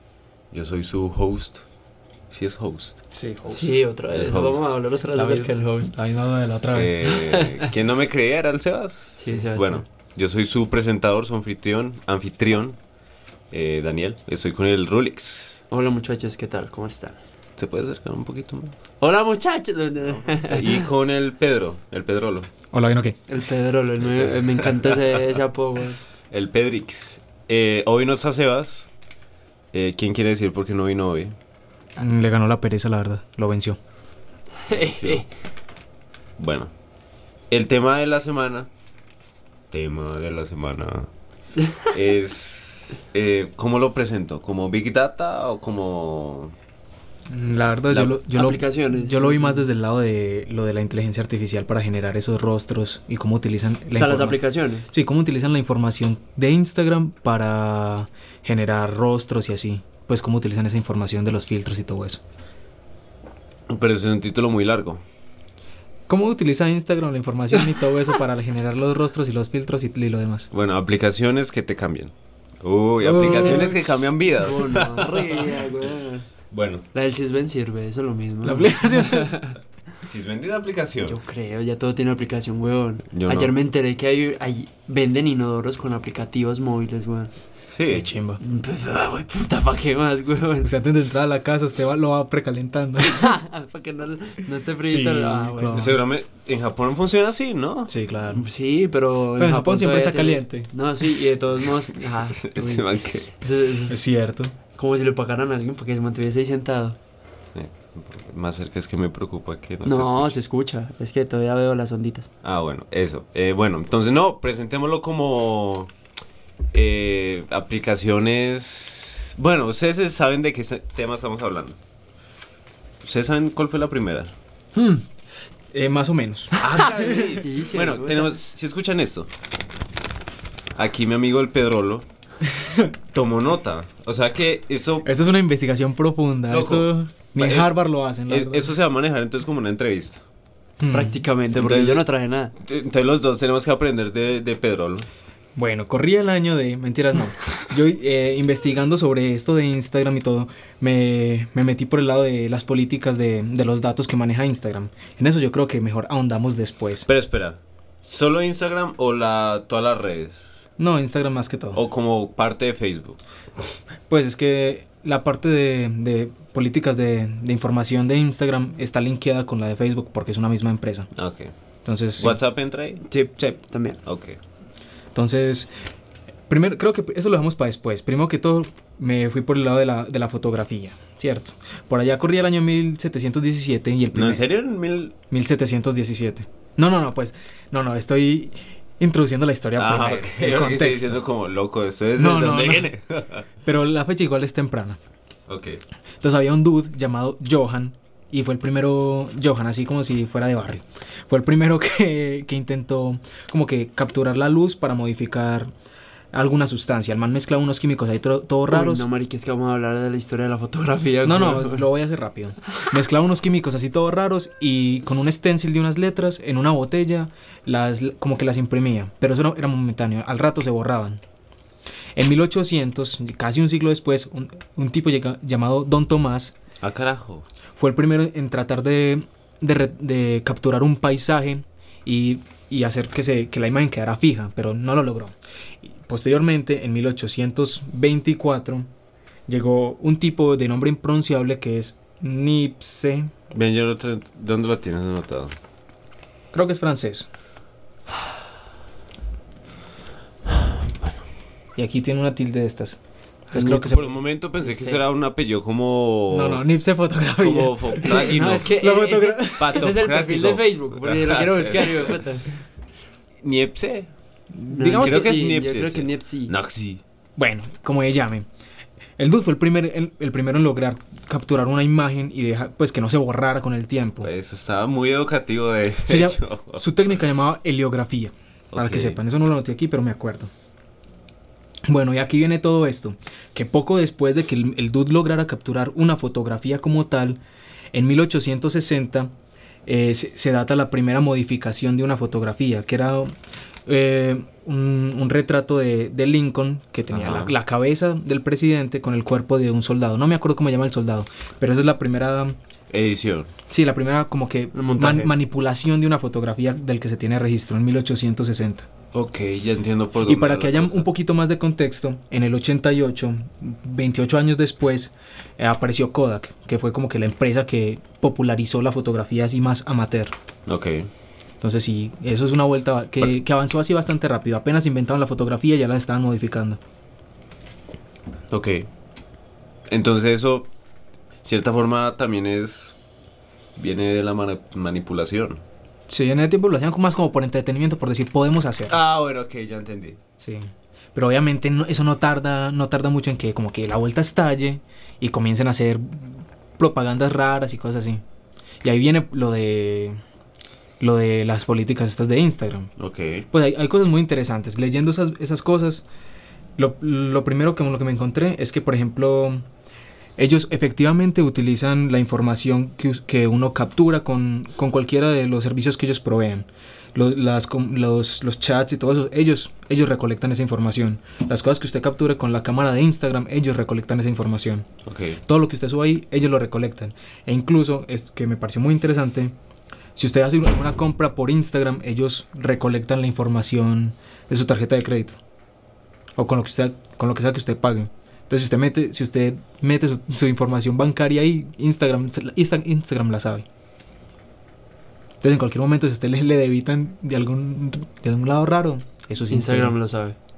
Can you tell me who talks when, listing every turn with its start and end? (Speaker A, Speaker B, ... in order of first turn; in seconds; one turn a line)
Speaker A: 0.5-1.6
Speaker A: 2.3-3.0
Speaker B: 3.1-3.8
Speaker C: 3.5-6.0
Speaker A: 4.1-4.8
Speaker B: 5.2-7.2
Speaker A: 6.7-12.8
Speaker C: 7.3-7.6
Speaker C: 9.2-9.8
Speaker A: 13.5-15.6
Speaker C: 15.7-17.2
Speaker A: 17.6-18.8
Speaker C: 19.0-20.8
Speaker A: 20.0-22.5
Speaker B: 22.7-23.2
Speaker C: 23.3-26.0
Speaker A: 26.3-28.9
Speaker A: 29.7-31.4
Speaker B: 32.0-33.8
Speaker C: 34.7-35.3
Speaker A: 34.8-35.3
Speaker A: 36.4-36.7
Speaker A: 37.5-38.7
Speaker A: 39.7-41.1
Speaker A: 41.9-46.5
Speaker B: 47.3-62.2
Speaker C: 48.0-49.7
Speaker C: 53.9-54.9
Speaker A: 63.7-65.0
Speaker B: 66.1-70.5
Speaker A: 70.5-75.5
Speaker B: 73.0-73.8
Speaker C: 73.3-73.7
Speaker C: 74.4-76.3
Speaker A: 76.5-76.8
Speaker C: 76.9-79.5
Speaker B: 78.4-79.5
Speaker A: 80.0-81.2
Speaker C: 81.1-87.3
Speaker A: 83.1-83.5
Speaker A: 87.7-88.1
Speaker B: 87.9-88.4
Speaker C: 88.4-90.7
Speaker B: 90.6-93.3
Speaker C: 93.0-96.0
Speaker B: 94.8-96.0
Speaker A: 95.7-97.9
Speaker B: 97.9-98.5
Speaker C: 98.3-104.0
Speaker B: 99.4-100.7
Speaker A: 102.3-103.3
Speaker B: 103.9-104.5
Speaker C: 104.8-107.0
Speaker A: 107.5-110.4
Speaker C: 109.8-112.3
Speaker A: 112.4-115.9
Speaker A: 116.7-121.8
Speaker A: 123.0-124.3
Speaker B: 124.8-125.0
Speaker B: 125.7-127.4
Speaker A: 126.6-129.3
Speaker C: 126.7-128.3
Speaker A: 130.8-132.1
Speaker B: 132.6-132.9
Speaker A: 133.1-135.1
Speaker B: 135.0-138.7
Speaker A: 136.5-137.8
Speaker A: 138.3-140.2
Speaker B: 140.8-141.2
Speaker C: 140.9-142.5
Speaker A: 141.6-142.0
Speaker A: 142.6-145.1
Speaker B: 145.6-157.1
Speaker A: 157.1-160.6
Speaker B: 160.8-161.8
Speaker A: 161.7-163.2
Speaker B: 164.1-171.1
Speaker A: 171.2-171.5
Speaker B: 171.8-172.4
Speaker A: 172.2-173.0
Speaker C: 173.1-174.0
Speaker A: 174.0-174.4
Speaker B: 175.1-175.7
Speaker B: 176.5-184.5
Speaker A: 184.1-185.1
Speaker B: 185.3-191.2
Speaker A: 189.8-193.5
Speaker B: 192.2-192.9
Speaker B: 193.7-195.0
Speaker A: 195.5-195.8
Speaker B: 196.2-205.7
Speaker B: 206.3-209.1
Speaker C: 208.7-211.8
Speaker B: 211.2-221.2
Speaker B: 222.2-226.6
Speaker A: 226.8-227.4
Speaker B: 227.8-238.9
Speaker B: 239.5-243.3
Speaker A: 243.5-245.6
Speaker B: 246.5-247.3
Speaker B: 251.8-254.0
Speaker C: 253.5-255.0
Speaker A: 253.8-256.6
Speaker B: 256.3-259.8
Speaker A: 257.4-258.7
Speaker C: 258.1-262.6
Speaker A: 259.6-262.2
Speaker A: 263.4-264.1
Speaker B: 264.6-265.3
Speaker C: 264.7-266.5
Speaker A: 265.0-267.0
Speaker B: 267.4-268.5
Speaker B: 269.2-274.3
Speaker A: 274.2-276.8
Speaker B: 276.1-280.5
Speaker A: 278.7-279.2
Speaker B: 281.9-287.4
Speaker B: 287.9-289.3
Speaker B: 289.9-293.4
Speaker B: 293.9-302.6
Speaker A: 297.1-297.5
Speaker A: 302.9-303.5
Speaker B: 303.7-308.9
Speaker C: 304.7-305.3
Speaker A: 309.1-311.1
Speaker B: 310.2-320.3
Speaker A: 320.7-321.1
Speaker B: 321.6-326.8
Speaker A: 328.5-328.9
Speaker A: 329.9-330.7
Speaker A: 331.4-332.9
Speaker A: 333.8-335.6
Speaker B: 336.1-339.0
Speaker A: 338.9-340.2
Speaker B: 340.4-348.2
Speaker B: 348.8-350.2
Speaker B: 351.0-352.9
Speaker A: 353.0-353.5
Speaker B: 353.5-356.1
Speaker B: 356.8-359.6
Speaker B: 360.4-374.9
Speaker A: 375.1-375.4
Speaker B: 375.4-379.5
Speaker B: 380.2-385.4
Speaker B: 386.4-393.7
Speaker B: 395.4-400.0
Speaker C: 399.5-400.4